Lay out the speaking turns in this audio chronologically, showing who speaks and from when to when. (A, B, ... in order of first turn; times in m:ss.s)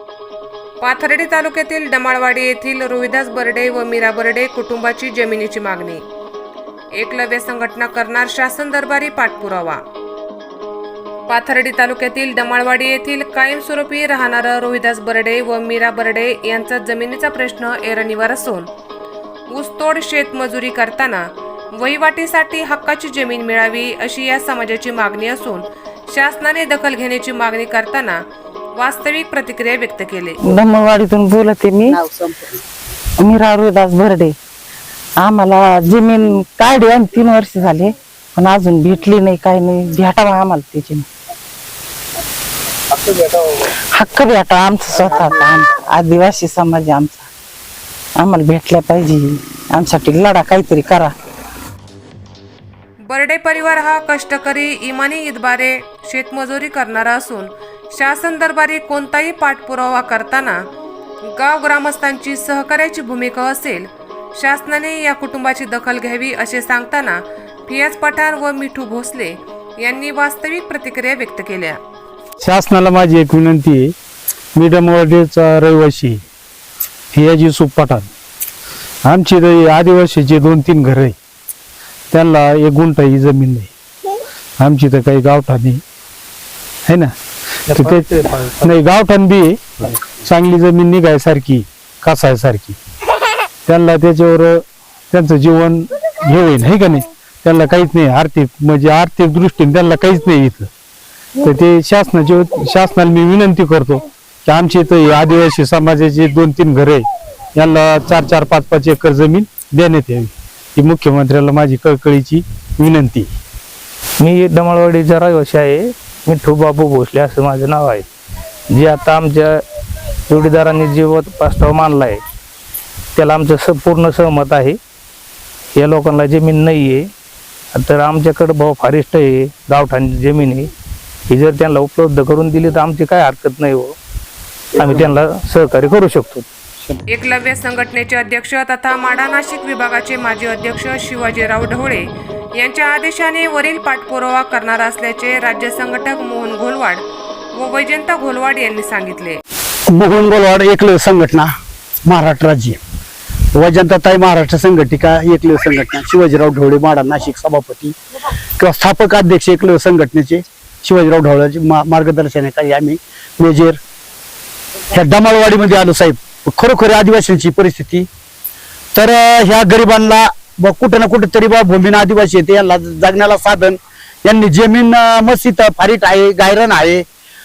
0:00.8-0:06.0 A
0:06.9-0:09.8 A
0:11.3-0:18.7 A
0:19.5-0:28.2 A
0:28.8-0:30.6 A
0:30.5-0:32.0 B
0:33.2-0:34.4 B
0:35.2-0:41.1 B
0:43.9-0:47.3 B
0:48.2-0:51.1 B
0:53.0-1:00.6 A
1:01.2-1:11.8 A
1:12.4-1:13.9 C
1:14.5-1:16.2 C
1:17.1-1:18.1 C
1:19.0-1:21.2 C
1:22.1-1:23.7 C
1:24.6-1:25.8 C
1:26.9-1:27.1 C
1:27.7-1:28.1 C
1:27.7-1:28.7 D
1:28.6-1:29.6 C
1:30.2-1:32.8 C
1:33.6-1:40.7 C
1:41.4-1:53.3 C
1:54.2-1:58.0 D
1:58.7-1:59.6 D
2:00.3-2:02.2 D
2:03.1-2:04.8 D
2:05.7-2:07.1 D
2:07.7-2:10.7 D
2:11.3-2:14.0 D
2:14.8-2:16.5 D
2:17.1-2:27.0 A
2:27.5-2:29.4 A
2:29.9-2:31.5 E
2:32.0-2:32.8 E
2:33.5-2:37.9 E
2:38.6-2:43.8 E
2:44.9-2:48.1 E
2:48.9-2:57.0 E